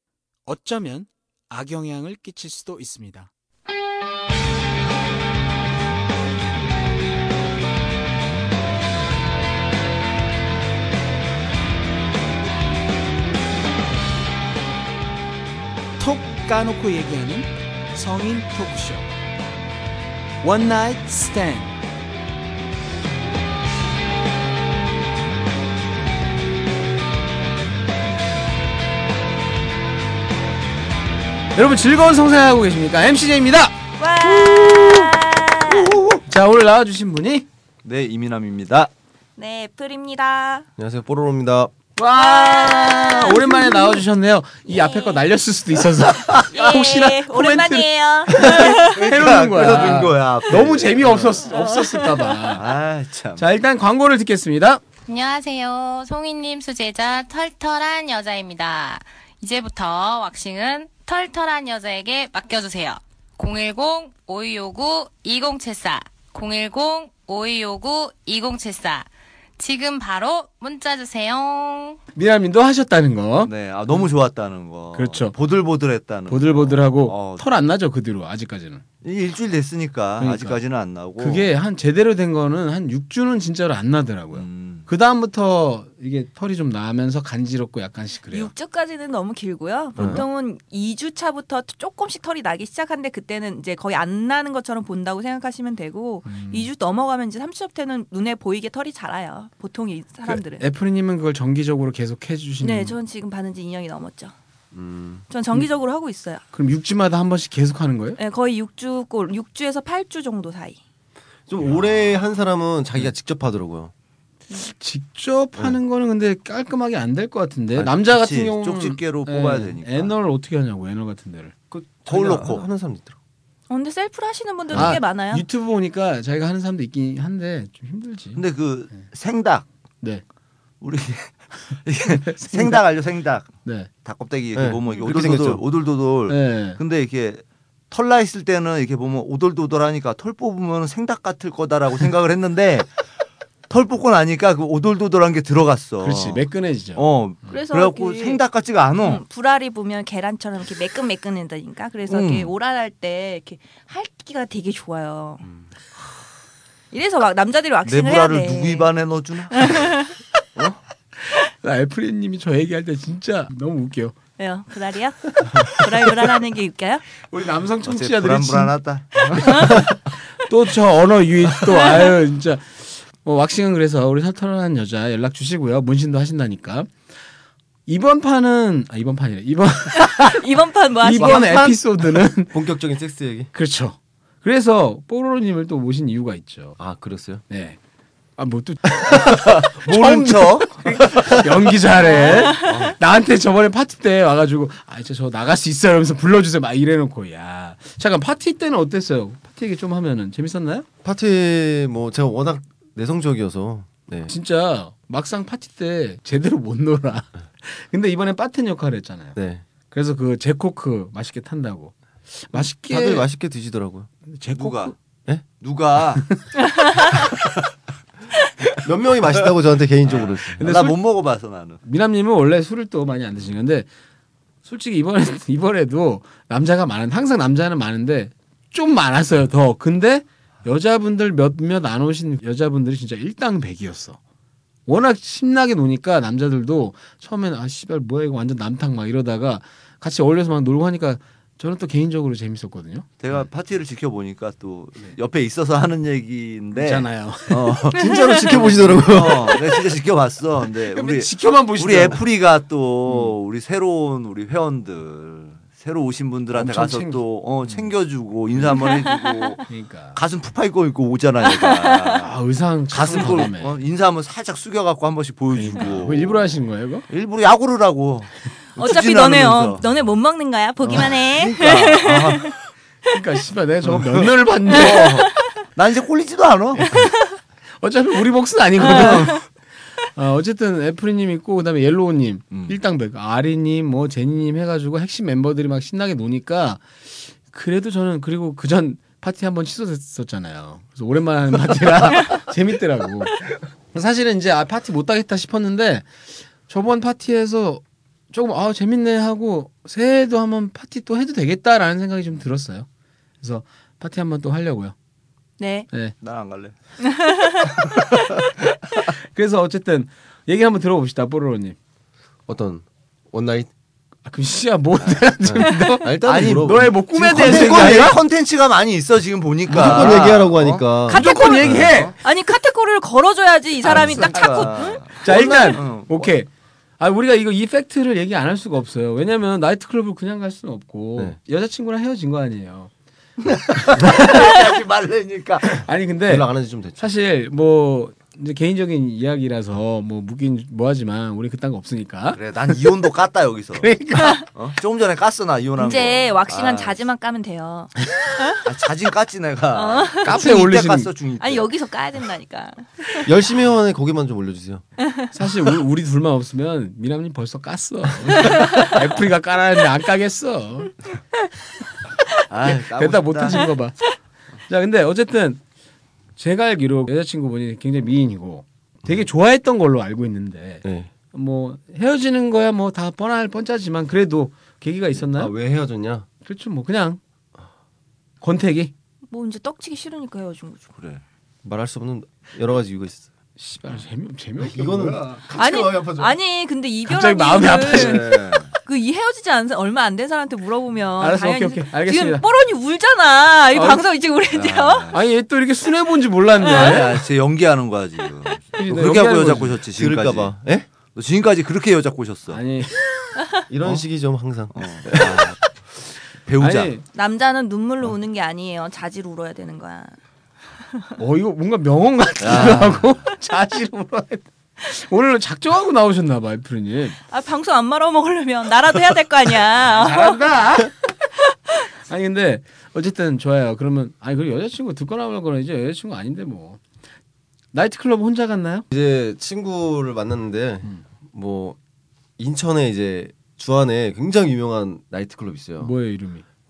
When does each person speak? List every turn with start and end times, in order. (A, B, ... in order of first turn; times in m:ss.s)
0:00.5-0:03.3 A
0:16.0-0:19.1 A
0:20.4-0:21.8 A
0:31.6-0:33.8 A
0:34.0-0:36.0 B
0:34.2-0:35.1 C
0:35.7-0:36.2 C
0:36.3-0:37.5 A
0:37.8-0:38.9 C
0:39.4-0:40.7 B
0:40.8-0:41.7 D
0:42.0-0:52.7 A
0:42.2-0:44.0 B
0:44.7-0:45.2 B
0:46.5-0:49.0 B
0:48.4-0:51.4 C
0:52.5-0:53.4 C
0:53.4-0:54.8 A
0:55.1-1:12.0 E
1:12.2-1:13.5 A
1:13.4-1:17.5 C
1:14.9-1:15.4 A
1:16.3-1:18.8 A
1:19.0-1:21.5 C
1:20.2-1:20.6 A
1:21.2-1:28.5 A
1:24.3-1:24.9 C
1:28.3-1:40.6 B
1:30.0-1:30.2 D
1:36.3-1:36.7 A
1:40.2-1:43.0 A
1:42.6-1:44.3 B
1:44.7-1:45.2 D
1:45.3-1:46.4 B
1:46.5-1:48.2 A
1:48.2-1:50.8 B
1:51.5-1:53.9 D
1:54.6-2:01.5 A
1:57.8-2:00.1 C
2:01.7-2:03.2 D
2:02.1-2:02.6 C
2:03.7-2:05.5 B
2:04.7-2:08.4 A
2:08.4-2:09.6 C
2:10.8-2:23.0 C
2:12.2-2:12.8 A
2:13.6-2:13.9 A
2:14.6-2:15.6 D
2:16.3-2:16.8 A
2:23.7-2:26.4 C
2:26.0-2:27.0 A
2:27.0-2:29.2 C
2:27.5-2:28.4 B
2:29.0-2:35.4 B
2:32.1-2:32.5 C
2:36.9-2:38.9 B
2:37.8-2:40.0 C
2:39.5-2:40.2 B
2:41.3-2:44.2 A
2:44.4-2:47.0 B
2:47.3-2:48.8 A
2:47.8-2:49.9 C
2:49.4-2:56.9 A
2:49.4-2:49.8 B
2:51.6-2:52.1 B
2:57.9-3:00.4 A
3:00.2-3:01.8 B
3:01.0-3:02.5 A
3:02.5-3:03.5 D
3:03.5-3:06.8 A
3:06.8-3:07.4 D
3:07.5-3:07.8 A
3:08.4-3:20.9 A
3:09.1-3:11.4 C
3:12.0-3:12.8 B
3:12.5-3:13.0 D
3:21.0-3:24.3 D
3:24.3-3:29.4 A
3:29.4-3:29.6 D
3:29.9-3:33.3 A
3:32.5-3:34.1 D
3:34.3-3:35.0 A
3:34.6-3:34.9 C
3:35.6-3:36.3 C
3:38.8-3:40.6 D
3:40.0-3:41.8 C
3:40.6-3:41.0 A
3:41.8-3:43.9 A
3:44.6-3:54.2 A
3:54.9-4:03.1 A
4:03.2-4:22.3 C
4:06.8-4:07.8 A
4:08.0-4:09.7 D
4:08.0-4:08.4 B
4:10.9-4:12.2 A
4:16.6-4:17.9 A
4:19.0-4:19.5 B
4:19.7-4:20.2 A
4:21.4-4:22.2 B
4:22.2-4:23.7 A
4:22.9-4:26.6 C
4:25.5-4:27.1 A
4:27.1-4:29.8 C
4:28.8-4:32.5 B
4:30.8-4:32.6 C
4:33.1-4:35.3 A
4:34.8-4:35.2 B
4:35.8-4:37.1 C
4:37.8-4:39.4 A
4:38.8-4:39.4 B
4:38.9-4:39.3 C
4:40.0-5:02.9 A
4:42.5-4:42.8 C
5:03.4-5:04.9 A
5:05.6-5:05.9 B
5:06.2-5:06.8 C
5:07.0-5:07.7 B
5:07.6-5:08.5 C
5:09.3-5:11.8 A
5:12.5-5:13.7 D
5:14.3-5:18.2 A
5:15.4-5:18.1 D
5:16.2-5:20.8 C
5:19.7-5:21.9 D
5:19.7-5:22.2 A
5:21.1-5:25.2 B
5:21.6-5:22.2 C
5:23.8-5:26.3 C
5:24.3-5:32.9 A
5:33.5-5:35.9 C
5:33.9-5:34.5 A
5:35.8-5:42.4 A
5:36.3-5:37.1 D
5:42.3-5:43.9 C
5:43.8-5:44.4 A
5:44.5-5:47.0 C
5:45.8-5:48.6 B
5:48.6-5:51.7 C
5:49.7-5:50.4 B
5:50.2-5:51.1 A
5:51.4-5:53.3 B
5:53.2-5:54.8 D
5:55.0-5:55.3 B
5:55.3-6:01.0 A
5:58.4-5:58.8 B
6:02.5-6:03.7 C
6:02.6-6:04.0 A
6:04.7-6:05.6 A
6:06.4-6:15.5 A
6:10.8-6:11.1 D
6:15.2-6:16.3 D
6:16.4-6:17.2 A
6:18.4-6:18.9 A
6:19.3-6:20.9 B
6:21.0-6:21.2 C
6:21.6-6:23.3 D
6:23.6-6:25.3 A
6:24.6-6:26.4 D
6:25.6-6:35.2 B
6:27.1-6:28.3 A
6:27.9-6:28.6 D
6:31.2-6:32.4 A
6:33.7-6:34.0 A
6:34.5-6:35.2 C
6:35.1-6:37.1 A
6:36.7-6:37.2 B
6:36.7-6:40.5 C
6:38.8-6:39.8 A
6:39.9-6:40.9 D
6:41.1-6:42.6 C
6:42.5-6:43.3 A
6:43.7-6:45.4 D
6:44.7-6:45.7 C
6:46.4-6:46.9 C
6:46.6-6:47.0 A
6:47.1-6:50.2 B
6:51.2-6:57.2 A
6:52.4-6:53.2 C
6:57.3-7:00.4 B
6:59.9-7:00.9 A
7:02.1-7:06.8 A
7:07.7-7:08.9 A
7:08.9-7:11.8 D
7:12.4-7:15.9 D
7:15.8-7:16.4 A